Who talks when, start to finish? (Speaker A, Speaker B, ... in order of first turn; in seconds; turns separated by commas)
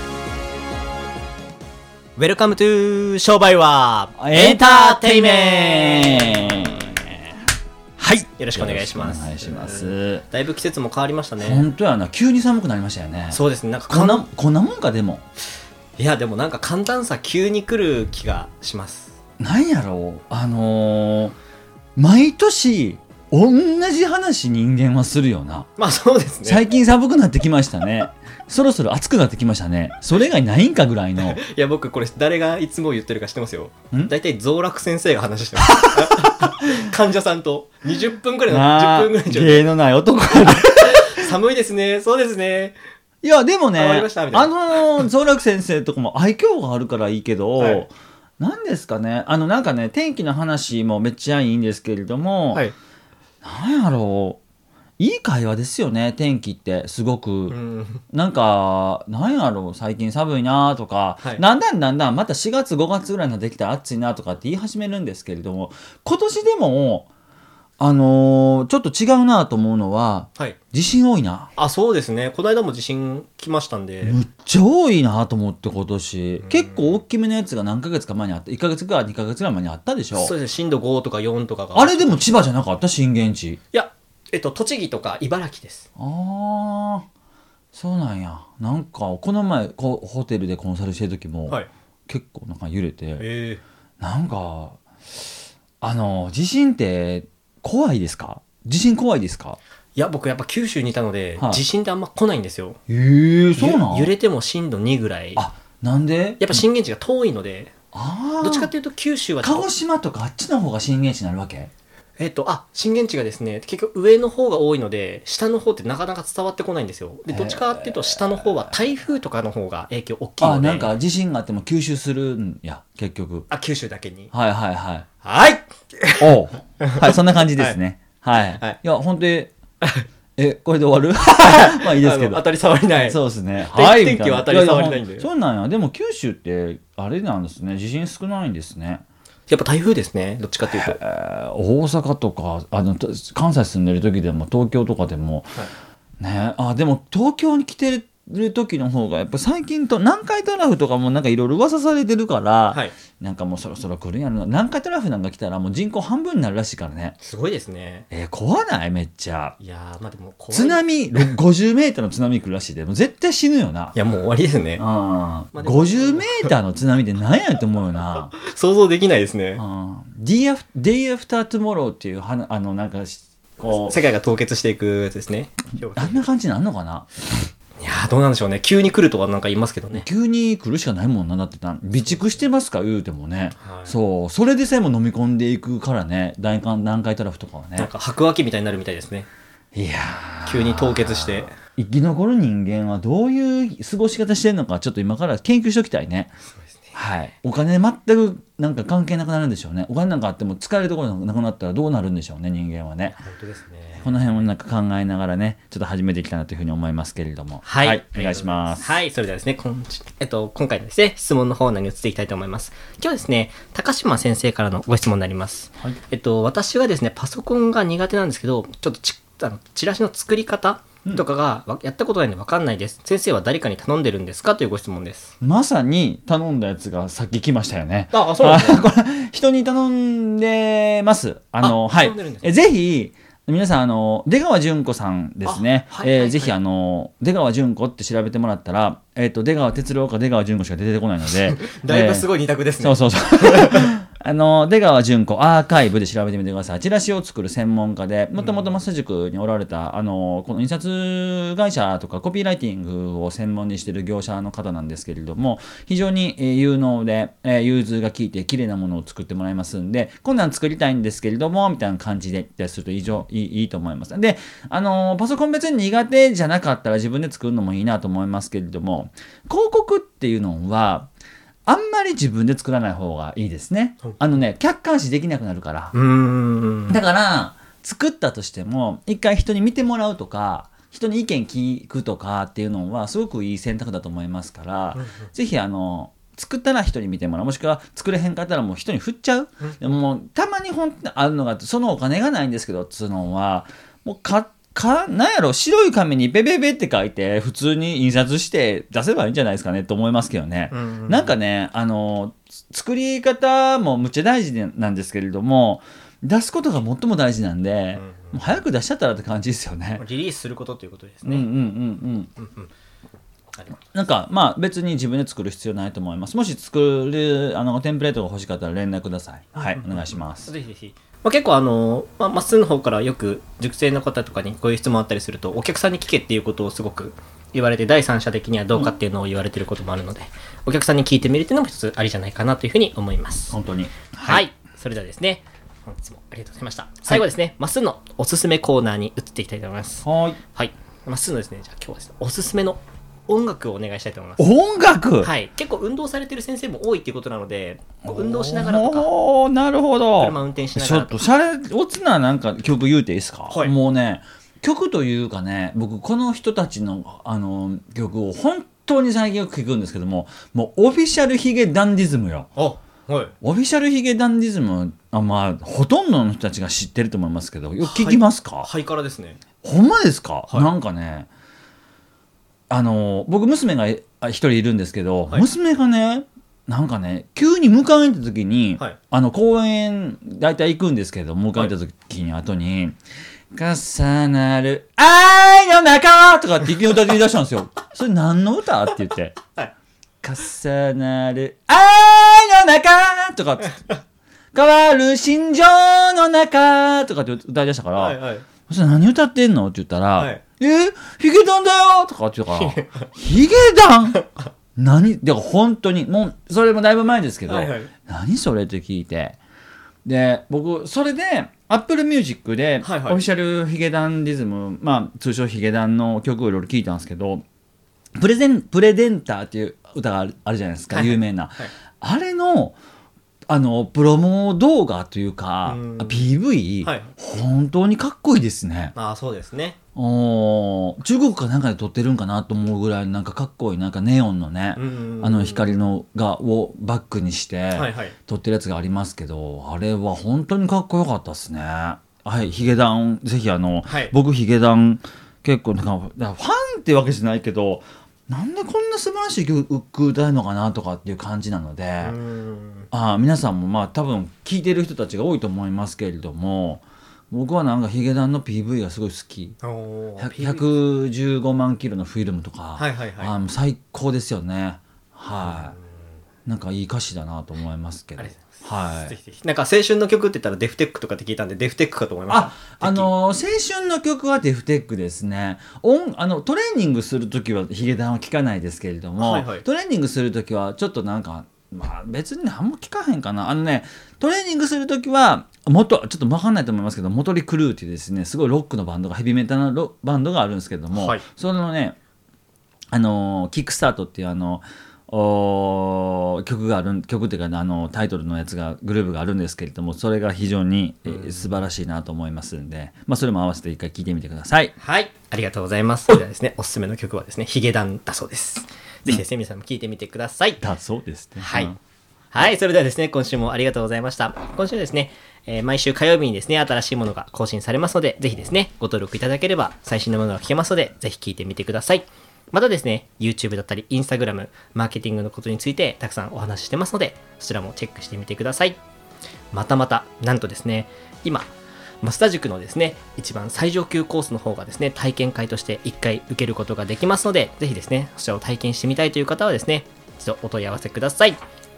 Speaker A: 2.1-6.9, Speaker B: 4.2-7.2, Speaker B: 8.0-10.2, Speaker A: 8.0-11.7, Speaker B: 11.4-15.2, Speaker A: 13.3-14.2, Speaker A: 16.0-19.1, Speaker B: 19.4-21.4, Speaker B: 21.9-25.7, Speaker A: 25.8-26.6, Speaker B: 26.4-31.4, Speaker A: 31.2-39.6, Speaker B: 35.6-36.6, Speaker B: 38.5-41.3, Speaker A: 40.4-42.8, Speaker B: 43.2-52.7, Speaker A: 43.7-45.1, Speaker A: 47.6-47.9, Speaker B: 53.4-54.4, Speaker B: 55.0-57.6, Speaker A: 57.5-58.0, Speaker B: 58.1-67.1, Speaker B: 67.8-71.5, Speaker A: 71.5-74.2, Speaker B: 74.0-80.3, Speaker A: 76.4-77.0, Speaker A: 80.1-82.3, Speaker B: 81.7-83.6, Speaker A: 83.7-85.9, Speaker B: 86.0-87.0, Speaker B: 87.7-93.3, Speaker A: 93.2-93.6, Speaker B: 94.0-94.8, Speaker B: 95.8-99.6, Speaker A: 100.0-102.8, Speaker B: 102.9-104.1, Speaker A: 103.5-105.5, Speaker B: 105.3-106.7, Speaker A: 106.4-107.7, Speaker B: 107.9-108.7, Speaker A: 108.4-109.7, Speaker B: 109.4-111.7, Speaker A: 112.2-120.9, Speaker B: 117.3-118.7, Speaker B: 120.4-123.5, Speaker A: 123.5-124.3, Speaker B: 124.3-125.1, Speaker A: 125.2-127.8, Speaker B: 126.2-129.5, Speaker B: 130.4-132.4, Speaker A: 131.2-135.3, Speaker B: 133.0-139.0, Speaker A: 139.5-141.0, Speaker B: 140.7-145.7, Speaker B: 146.2-157.2, Speaker A: 157.2-158.1, Speaker B: 158.1-159.6, Speaker A: 159.6-161.3, Speaker B: 160.5-164.0, Speaker A: 163.9-164.8, Speaker B: 164.8-168.3, Speaker A: 165.5-166.5, Speaker A: 168.3-169.6, Speaker B: 169.6-174.0, Speaker A: 173.7-176.3, Speaker B: 175.8-177.1, Speaker A: 177.8-180.1, Speaker B: 179.9-187.9, Speaker A: 183.6-184.0, Speaker A: 187.8-189.3, Speaker B: 189.7-196.3, Speaker A: 190.4-191.5, Speaker A: 196.5-197.0, Speaker B: 196.9-203.2, Speaker A: 203.2-204.4, Speaker B: 204.0-209.0, Speaker A: 207.6-225.3, Speaker B: 225.4-271.1, Speaker A: 228.1-228.8, Speaker A: 231.6-232.5, Speaker A: 235.4-236.5, Speaker A: 241.3-243.9, Speaker A: 248.4-248.7, Speaker B: 271.7-275.9, Speaker A: 275.9-277.0, Speaker B: 276.9-310.0, Speaker A: 284.9-285.2, Speaker A: 300.7-301.3, Speaker A: 308.0-308.6, Speaker A: 310.0-311.5, Speaker B: 311.2-312.3, Speaker A: 312.4-312.7, Speaker A: 313.5-313.8, Speaker B: 313.9-320.5, Speaker A: 319.7-333.6, Speaker B: 333.5-334.4, Speaker A: 334.2-344.5, Speaker B: 340.0-340.4, Speaker B: 344.4-345.3, Speaker A: 345.2-349.1, Speaker B: 348.0-362.5, Speaker A: 350.2-351.2, Speaker A: 353.5-353.7, Speaker A: 362.6-363.3, Speaker B: 363.4-368.7, Speaker A: 367.8-369.4, Speaker B: 369.6-371.3, Speaker B: 372.7-383.0, Speaker B: 383.5-389.4, Speaker B: 390.2-393.8, Speaker B: 394.5-404.2, Speaker A: 397.9-398.4, Speaker A: 400.2-400.4, Speaker A: 402.5-403.1, Speaker B: 404.8-409.4, Speaker A: 407.5-407.9, Speaker B: 410.0-417.4, Speaker A: 412.8-413.2, Speaker B: 418.2-422.8, Speaker A: 420.9-421.7, Speaker B: 423.5-428.9, Speaker A: 425.6-426.3, Speaker A: 426.8-427.1, Speaker A: 428.9-429.8, Speaker B: 429.9-452.2, Speaker A: 434.8-435.7, Speaker A: 437.7-438.1, Speaker A: 443.9-444.1, Speaker A: 452.0-452.9, Speaker B: 452.9-459.6, Speaker A: 459.6-460.6, Speaker B: 460.2-465.8, Speaker A: 462.8-463.4, Speaker A: 465.4-465.9, Speaker B: 466.4-469.2, Speaker A: 468.2-473.1, Speaker B: 472.3-492.0, Speaker A: 479.2-479.6, Speaker A: 490.9-491.2, Speaker B: 492.9-504.7, Speaker A: 501.1-501.5, Speaker A: 504.8-510.6, Speaker B: 510.6-511.8, Speaker A: 511.4-511.8, Speaker A: 512.3-528.8, Speaker A: 529.5-541.4